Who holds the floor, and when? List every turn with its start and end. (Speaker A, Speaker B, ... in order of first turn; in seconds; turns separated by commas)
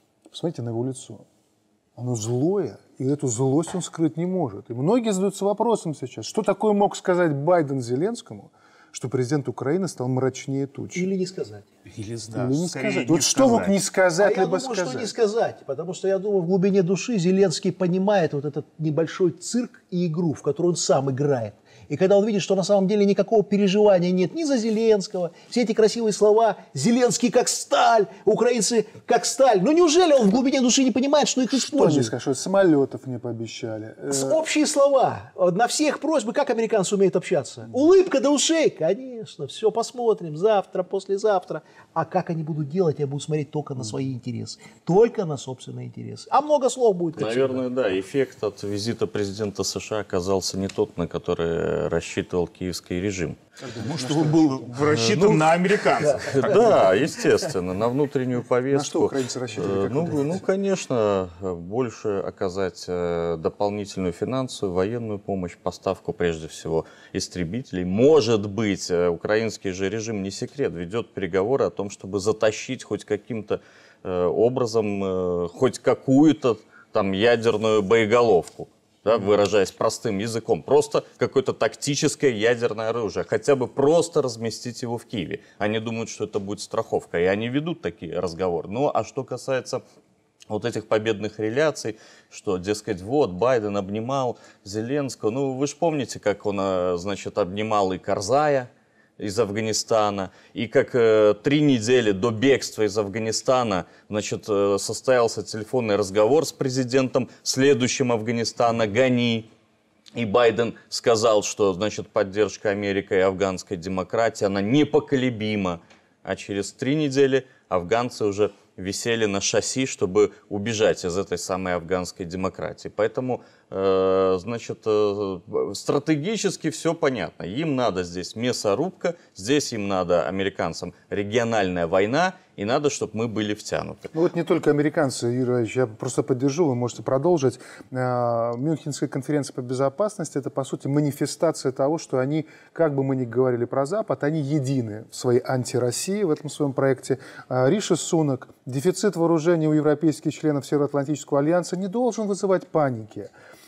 Speaker A: 0.3-1.2, Speaker A: 1.9-11.1, Speaker B: 10.9-11.7, Speaker C: 11.9-13.8, Speaker A: 12.3-15.1, Speaker B: 14.2-32.1, Speaker A: 31.5-34.4, Speaker B: 34.1-47.6, Speaker D: 47.2-53.4, Speaker A: 53.6-54.9, Speaker C: 53.8-56.6, Speaker D: 54.9-55.5, Speaker D: 56.1-89.8, Speaker B: 56.4-56.8, Speaker A: 58.7-60.4, Speaker D: 90.5-109.5, Speaker D: 110.1-134.1, Speaker A: 134.1-153.3